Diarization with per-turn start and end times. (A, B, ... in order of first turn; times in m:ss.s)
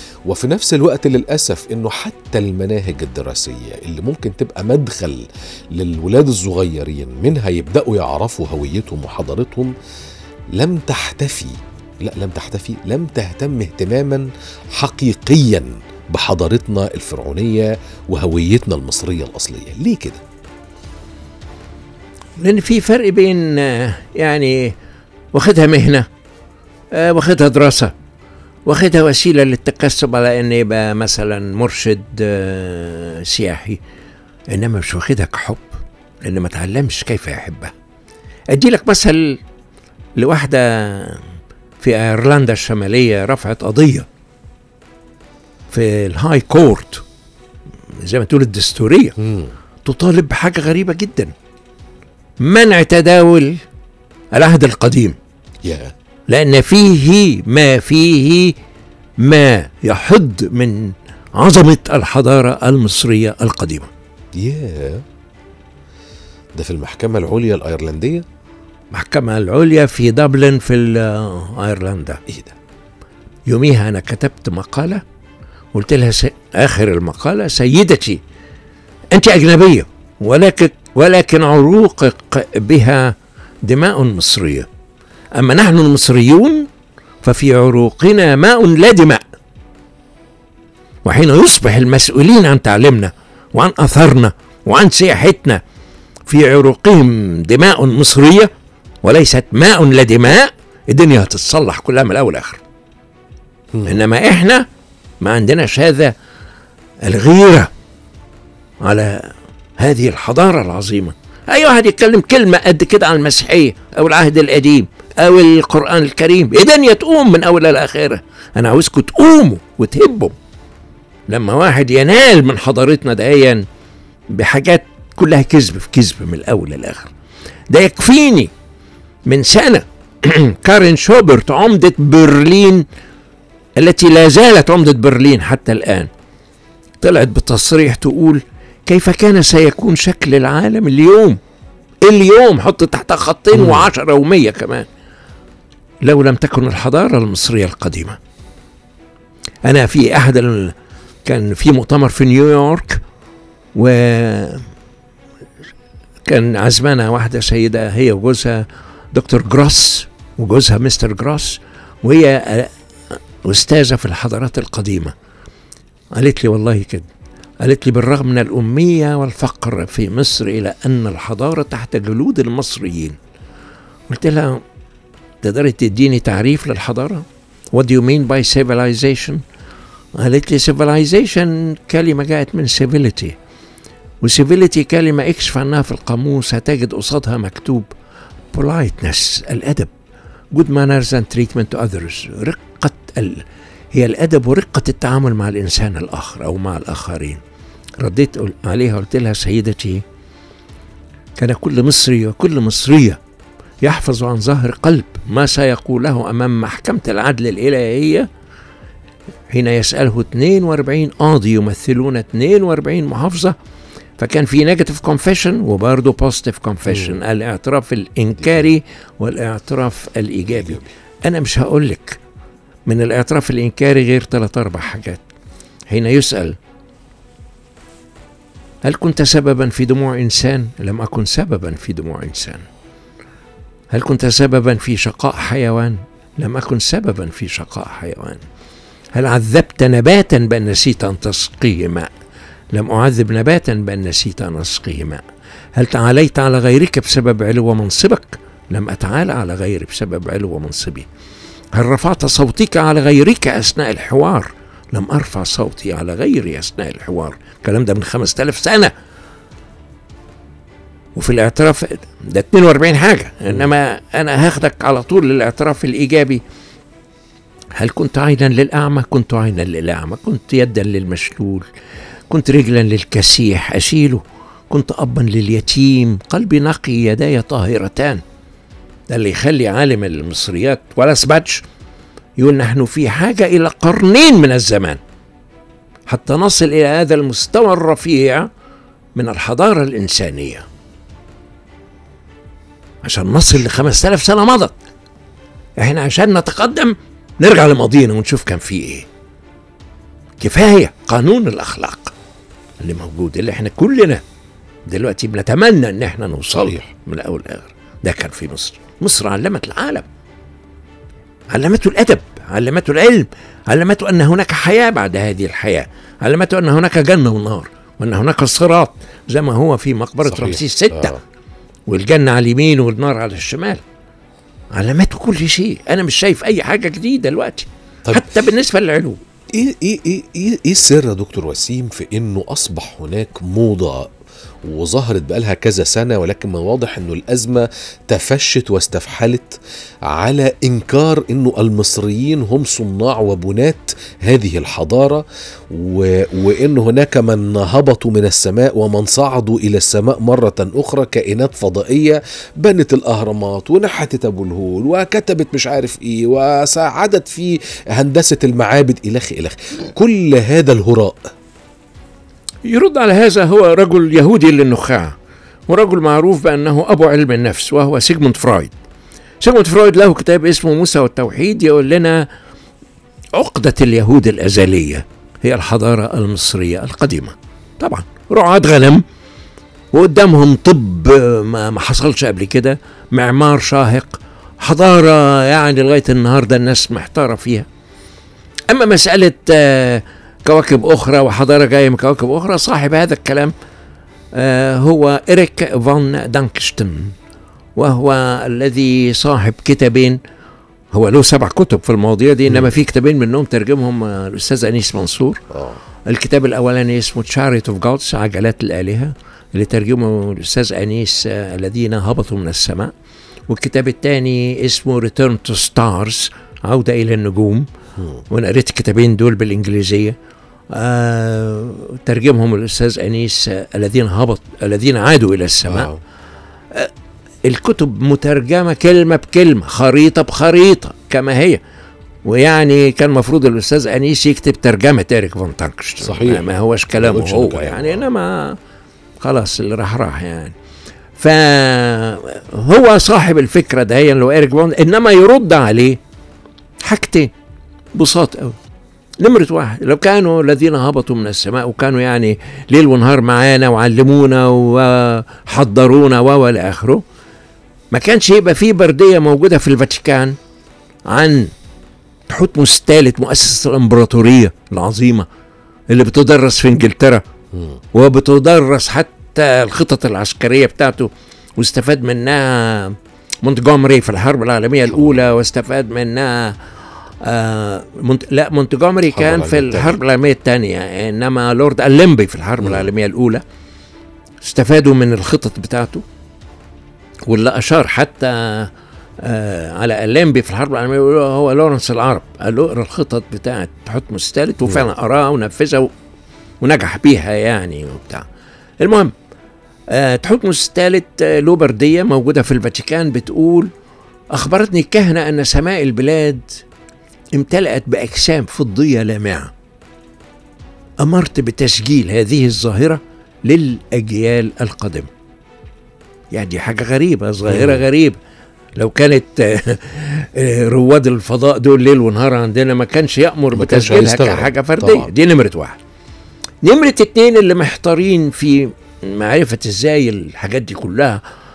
0:00.3-0:05.2 A
0:05.7-0:09.7 A
0:10.6-0:20.2 A
0:22.4-0:24.7 B
0:25.3-0:26.0 B
0:26.9-0:27.9 B
0:28.7-0:33.8 B
0:34.5-0:37.7 B
0:38.5-0:39.4 B
0:40.2-0:41.2 B
0:41.8-0:44.0 B
0:45.7-0:47.0 B
0:48.0-0:49.1 B
0:49.2-0:49.5 A
0:49.8-0:51.3 B
0:52.4-0:53.6 B
0:54.3-0:55.2 B
0:55.6-0:55.9 A
0:56.3-0:58.5 B
0:59.2-1:03.9 B
1:04.4-1:05.0 A
1:06.6-1:08.2 A
1:08.9-1:12.2 B
1:12.3-1:12.5 A
1:13.5-1:15.0 B
1:15.7-1:18.2 B
1:19.1-1:24.7 B
1:25.4-1:26.7 B
1:27.2-1:29.2 B
1:31.0-1:35.6 B
1:36.3-1:38.5 B
1:39.0-1:42.6 B
1:43.8-1:44.6 B
1:45.2-1:46.1 B
1:47.0-1:47.7 B
1:48.8-2:00.3 B
2:01.3-2:03.6 B
2:04.3-2:07.1 B
2:07.7-2:08.5 B
2:09.3-2:12.8 B
2:13.8-2:16.1 B
2:17.0-2:21.4 B
2:22.0-2:24.9 B
2:23.5-2:23.9 A
2:26.0-2:28.2 B
2:29.6-2:30.7 B
2:31.2-2:33.0 B
2:33.7-2:34.6 B
2:36.2-2:42.7 B
2:43.4-2:45.1 B
2:46.1-2:47.1 B
2:47.6-2:53.2 B
2:54.1-2:54.6 B
2:55.4-2:59.4 B
3:00.2-3:03.4 B
3:04.2-3:07.9 B
3:08.5-3:09.9 B
3:10.5-3:17.4 B
3:18.0-3:20.0 B
3:21.4-3:23.2 B
3:23.8-3:28.3 B
3:29.5-3:33.5 B
3:34.2-3:42.2 B
3:36.9-3:37.2 A
3:38.4-3:38.7 A
3:40.5-3:40.8 A
3:42.9-3:45.2 B
3:45.9-3:46.6 B
3:48.8-3:52.6 B
3:53.9-3:58.4 B
3:59.1-4:02.1 B
4:02.7-4:05.2 B
4:05.7-4:11.0 B
4:11.7-4:18.9 B
4:21.2-4:26.4 B
4:27.7-4:31.7 B
4:32.3-4:38.2 B
4:39.1-4:41.6 B
4:42.4-4:45.0 B
4:46.1-4:48.5 B
4:49.1-4:50.6 B
4:53.0-4:54.7 B
4:55.8-4:59.0 B
5:00.4-5:02.1 B
5:02.8-5:04.2 B
5:04.9-5:10.0 B
5:06.5-5:06.8 A
5:11.5-5:21.2 B
5:20.2-5:21.2 A
5:21.9-5:23.8 B
5:24.7-5:29.2 B
5:29.6-5:34.1 A
5:34.6-5:39.6 A
5:40.1-6:01.2 A
6:02.6-6:05.1 B
6:05.7-6:08.7 B
6:09.4-6:12.2 B
6:13.3-6:19.0 B
6:19.9-6:27.7 B
6:28.7-6:33.5 B
6:34.3-6:37.1 B
6:37.8-6:40.2 B
6:40.9-6:45.5 B
6:45.5-6:45.8 A
6:46.0-6:52.9 B
6:53.5-6:57.7 B
6:58.3-7:00.2 B
7:00.7-7:05.9 B
7:05.7-7:06.0 A
7:07.4-7:11.6 B
7:12.2-7:18.5 B
7:16.0-7:18.0 A
7:19.2-7:20.5 B
7:21.2-7:26.0 B
7:26.8-7:27.3 B
7:27.9-7:28.6 B
7:29.2-7:37.0 B
7:37.9-7:40.3 B
7:41.1-7:41.5 B
7:42.3-7:45.2 B
7:45.9-7:47.2 B
7:47.9-7:56.6 B
7:57.2-8:03.4 B
7:59.1-8:00.0 A
8:02.6-8:02.9 A
8:04.4-8:06.0 B
8:07.3-8:08.7 B
8:09.2-8:15.9 B
8:16.6-8:18.2 B
8:18.8-8:19.1 B
8:19.9-8:23.7 B
8:24.3-8:26.6 B
8:27.4-8:29.5 B
8:31.0-8:35.1 B
8:36.3-8:38.2 B
8:37.5-8:37.8 A
8:38.8-8:45.8 B
8:43.5-8:45.1 A
8:46.6-8:51.2 B